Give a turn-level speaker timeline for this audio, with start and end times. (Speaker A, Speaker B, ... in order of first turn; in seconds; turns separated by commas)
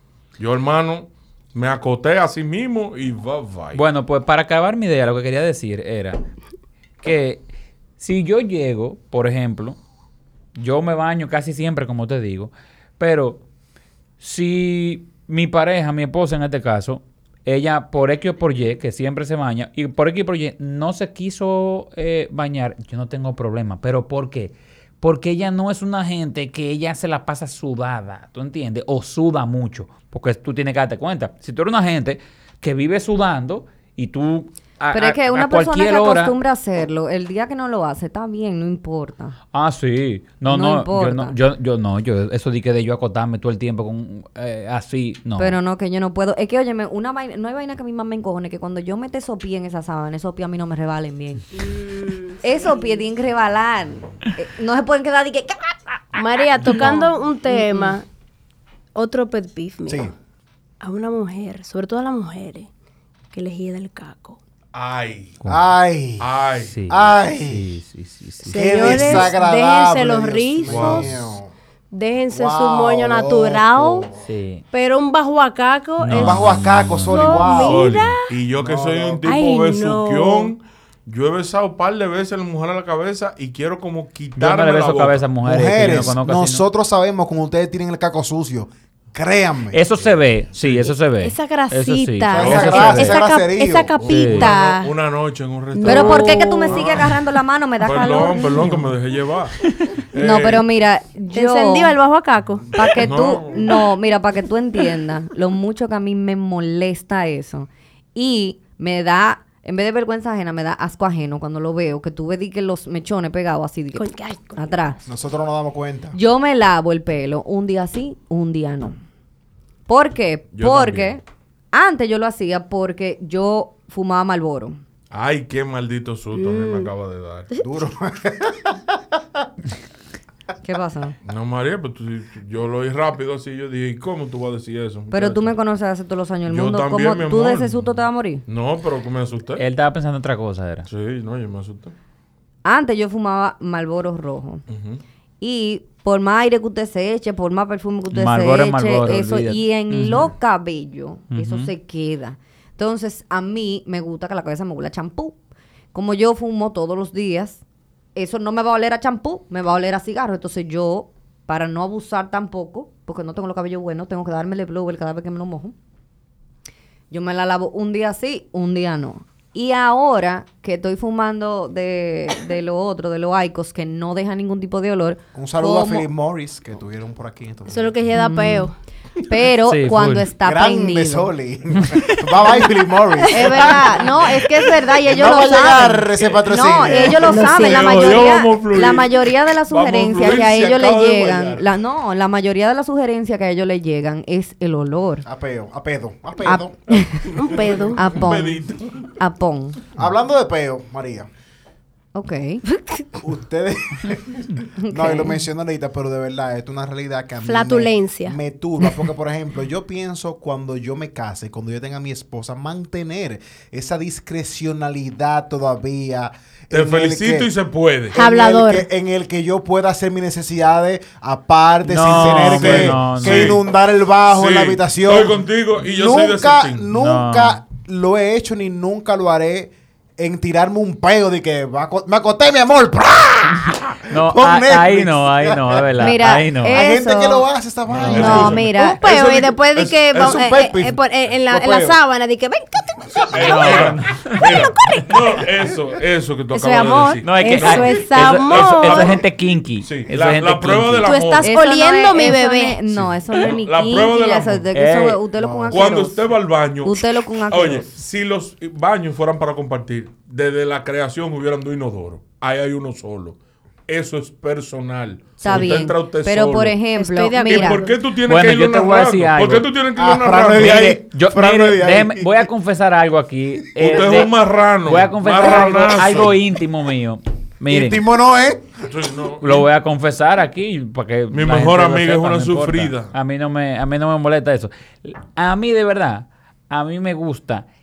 Speaker A: 0.4-3.8, Speaker B: 3.7-6.2, Speaker B: 7.0-7.4, Speaker B: 8.0-9.8, Speaker B: 10.6-13.4, Speaker B: 14.2-36.4, Speaker C: 34.9-39.4, Speaker B: 39.5-45.6, Speaker C: 40.5-41.4, Speaker C: 45.4-51.5, Speaker D: 51.5-53.0, Speaker C: 52.4-56.0, Speaker D: 56.1-58.0, Speaker C: 56.6-58.0, Speaker D: 59.0-60.1, Speaker D: 60.8-62.7, Speaker D: 63.3-64.4, Speaker A: 64.7-65.4, Speaker E: 65.5-66.3, Speaker A: 66.2-66.8, Speaker B: 66.6-69.2, Speaker E: 66.9-67.7, Speaker D: 68.5-71.1, Speaker E: 68.5-71.5, Speaker A: 70.7-71.3, Speaker D: 71.9-74.1, Speaker E: 72.3-74.2, Speaker B: 74.2-74.6, Speaker D: 74.7-78.3, Speaker B: 76.0-77.6, Speaker E: 76.2-77.9, Speaker A: 77.6-85.3, Speaker E: 78.6-79.3, Speaker D: 79.3-80.5, Speaker B: 84.4-86.7, Speaker E: 85.5-89.8, Speaker B: 89.7-93.2, Speaker A: 90.6-90.9, Speaker D: 91.2-94.9, Speaker E: 92.3-93.9, Speaker A: 92.4-93.0, Speaker A: 94.0-97.1, Speaker B: 94.1-94.5, Speaker D: 95.7-96.9, Speaker C: 95.8-98.9, Speaker A: 97.8-99.5, Speaker A: 100.1-100.7, Speaker C: 100.2-102.0, Speaker D: 101.3-103.0, Speaker C: 102.7-115.0, Speaker A: 103.0-103.8, Speaker D: 114.0-114.6, Speaker E: 115.1-116.2, Speaker C: 116.1-119.0, Speaker C: 119.9-121.2, Speaker A: 120.5-121.2, Speaker C: 121.7-124.8, Speaker A: 125.1-127.5, Speaker D: 126.3-126.9, Speaker E: 127.6-129.2, Speaker C: 130.6-131.2, Speaker A: 131.3-135.6, Speaker C: 135.1-138.4, Speaker A: 136.5-139.6, Speaker B: 139.6-140.9, Speaker A: 140.9-141.9, Speaker C: 142.7-144.6, Speaker A: 144.7-145.0, Speaker C: 145.4-155.4, Speaker B: 148.1-150.3, Speaker B: 151.3-151.7, Speaker C: 155.9-157.6, Speaker C: 158.2-165.8, Speaker C: 167.1-176.1, Speaker E: 175.3-178.0, Speaker D: 177.7-178.7, Speaker C: 178.2-178.7, Speaker C: 179.3-181.3, Speaker B: 179.7-180.3, Speaker E: 180.4-187.6, Speaker B: 181.8-182.2, Speaker C: 183.3-195.3, Speaker D: 183.4-183.7, Speaker D: 187.0-188.3, Speaker A: 187.5-191.6, Speaker E: 195.2-197.0, Speaker C: 196.4-199.8, Speaker D: 197.3-198.0, Speaker A: 198.0-199.1, Speaker E: 200.0-201.3, Speaker C: 202.1-202.6, Speaker E: 203.2-217.5, Speaker C: 204.8-205.4, Speaker D: 207.4-209.0, Speaker A: 216.7-218.2, Speaker E: 218.1-235.9, Speaker D: 218.2-218.9, Speaker B: 221.9-223.6, Speaker A: 222.2-223.6, Speaker A: 224.3-226.9, Speaker B: 226.9-227.6, Speaker B: 234.1-236.8, Speaker C: 236.0-237.5, Speaker E: 236.7-238.7, Speaker A: 237.9-240.5, Speaker C: 238.1-239.0, Speaker D: 238.7-245.2, Speaker E: 240.2-242.0, Speaker A: 243.3-249.3, Speaker B: 243.4-244.5, Speaker D: 246.5-249.2, Speaker B: 247.2-251.2, Speaker A: 249.8-251.5, Speaker D: 251.1-252.8, Speaker C: 251.4-257.9, Speaker A: 252.9-254.7, Speaker B: 254.7-255.2, Speaker E: 255.4-256.1, Speaker A: 255.7-266.8, Speaker C: 265.4-267.8, Speaker D: 266.9-268.0, Speaker A: 267.4-271.0, Speaker B: 268.3-269.7, Speaker E: 270.0-272.5, Speaker B: 270.6-278.0, Speaker A: 273.8-276.4, Speaker E: 277.7-278.8, Speaker A: 278.9-279.7, Speaker B: 279.4-287.7, Speaker A: 281.3-283.1